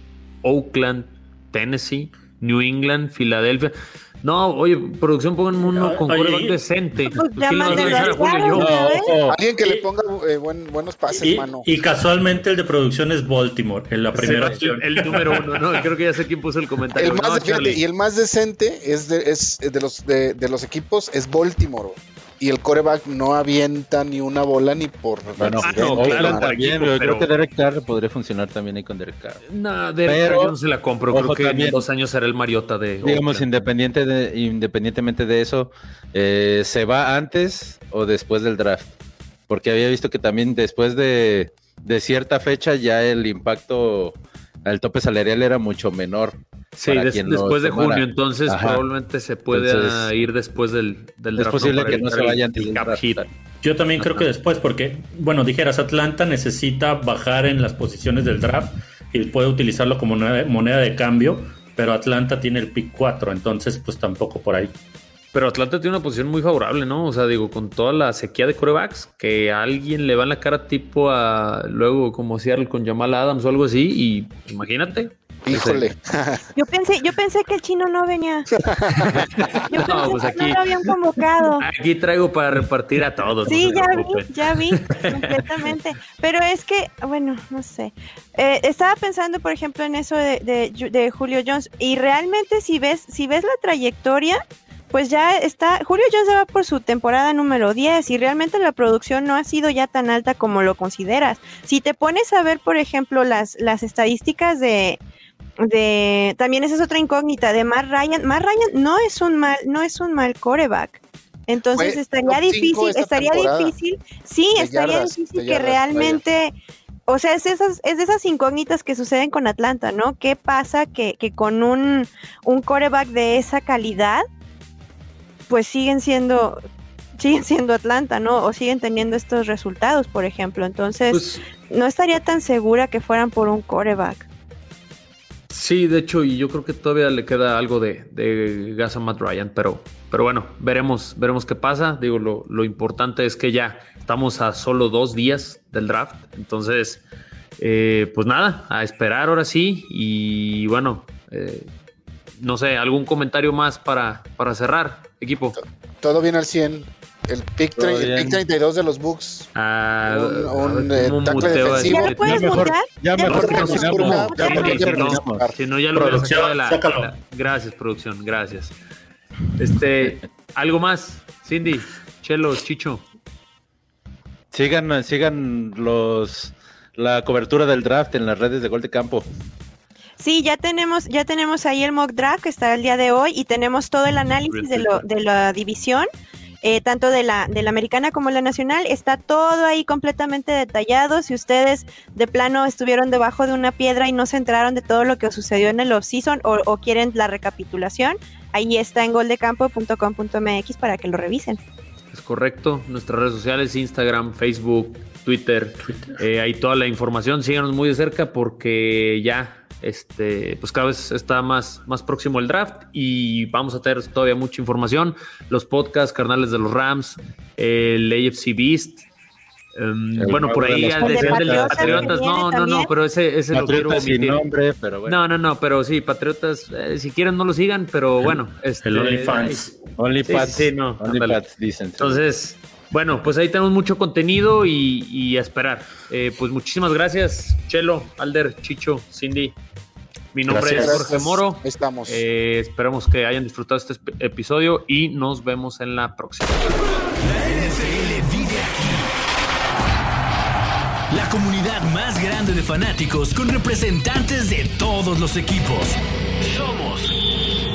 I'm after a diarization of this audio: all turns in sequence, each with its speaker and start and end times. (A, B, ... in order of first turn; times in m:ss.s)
0:00.4-0:09.0 A
0:05.7-0:08.5 B
0:07.1-0:09.1 C
0:08.6-0:09.4 D
0:09.3-0:11.7 E
0:11.2-0:15.8 B
0:14.1-0:17.8 A
0:14.2-0:14.6 D
0:17.0-0:26.5 E
0:25.4-0:29.4 D
0:25.6-0:27.3 A
0:29.5-0:33.7 A
0:30.0-0:30.5 D
0:31.1-0:31.8 D
0:33.0-0:38.9 D
0:39.5-0:48.8 D
0:46.8-0:53.3 A
0:49.5-0:50.1 D
0:51.4-0:53.3 D
0:53.6-1:04.7 B
0:54.0-0:54.3 A
1:05.3-1:15.9 A
1:15.4-1:16.5 E
1:16.5-1:18.5 C
1:18.5-1:19.5 E
1:19.0-1:20.6 A
1:19.6-1:21.6 C
1:21.6-1:25.4 A
1:23.4-1:34.4 C
1:34.9-1:45.0 C
1:45.6-1:56.5 C
1:51.7-1:53.7 E
1:54.5-1:56.2 E
1:57.1-2:04.2 C
2:05.5-2:06.6 C
2:07.2-2:14.3 C
2:11.1-2:11.4 A
2:15.5-2:27.0 A
2:27.6-2:31.7 A
2:32.4-2:35.6 A
2:35.6-2:39.5 E
2:37.7-2:38.4 D
2:39.5-2:42.6 A
2:40.0-2:42.1 E
2:41.6-2:45.5 D
2:41.7-2:44.6 C
2:43.2-2:45.6 E
2:43.4-2:48.7 A
2:45.9-2:47.1 B
2:49.6-2:53.0 A
2:54.5-2:59.3 D
3:00.2-3:06.1 C
3:04.5-3:05.0 A
3:06.6-3:21.6 C
3:22.1-3:39.0 A
3:39.7-3:44.4 A
3:40.2-3:42.1 D
3:41.0-3:42.9 C
3:43.5-3:45.2 D
3:45.0-3:51.4 A
3:48.8-3:49.8 B
3:50.0-3:52.2 D
3:52.0-3:59.6 A
4:00.3-4:06.7 A
4:00.5-4:01.1 D
4:00.7-4:02.2 E
4:07.2-4:09.1 F
4:11.1-4:17.1 F